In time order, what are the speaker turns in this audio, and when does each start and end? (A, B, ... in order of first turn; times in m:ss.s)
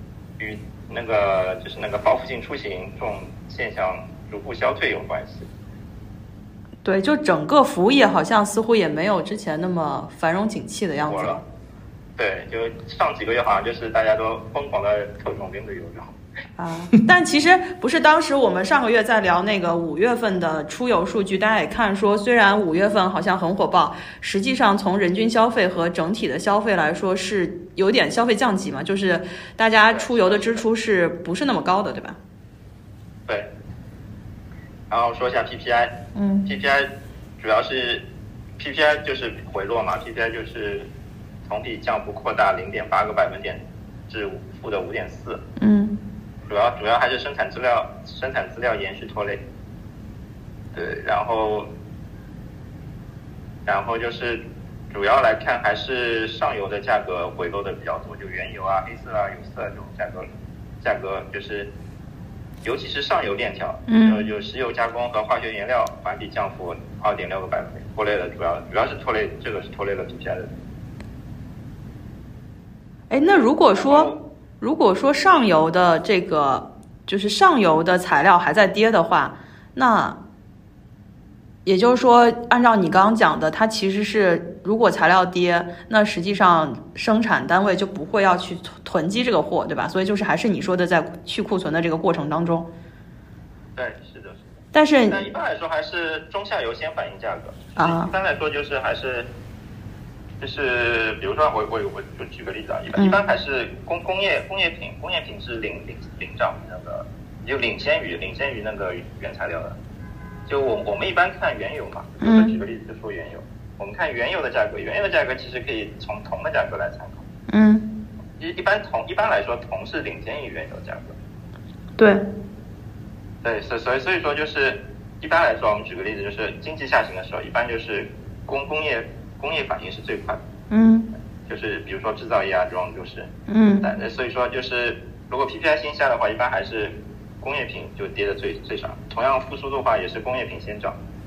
0:00.4-0:05.5 A
0:06.8-0:11.4 B
0:11.1-0:11.4 A
0:12.2-0:16.2 A
0:16.6-0:32.2 B
0:29.9-0:30.6 A
0:34.9-0:36.9 A
0:36.1-0:36.5 B
0:37.4-0:38.0 A
0:38.6-0:40.9 A
0:41.4-0:45.4 A
0:45.6-0:46.0 B
0:46.4-0:49.4 A
0:50.7-0:51.7 A
0:53.6-1:00.3 A
1:00.8-1:01.7 A
1:02.6-1:10.5 A
1:03.9-1:04.2 B
1:13.1-1:20.2 B
1:13.7-1:14.2 A
1:21.6-1:32.7 B
1:33.8-1:34.6 A
1:34.7-1:35.2 B
1:35.1-1:39.3 A
1:37.8-1:38.1 B
1:40.4-1:49.8 A
1:50.5-1:57.2 A
1:52.2-1:52.5 B
1:57.5-1:57.9 B
1:58.4-2:01.1 A
2:02.0-2:02.2 B
2:03.4-2:10.4 A
2:10.7-2:11.1 B
2:11.5-2:13.3 A
2:13.5-2:13.9 B
2:13.8-2:21.0 A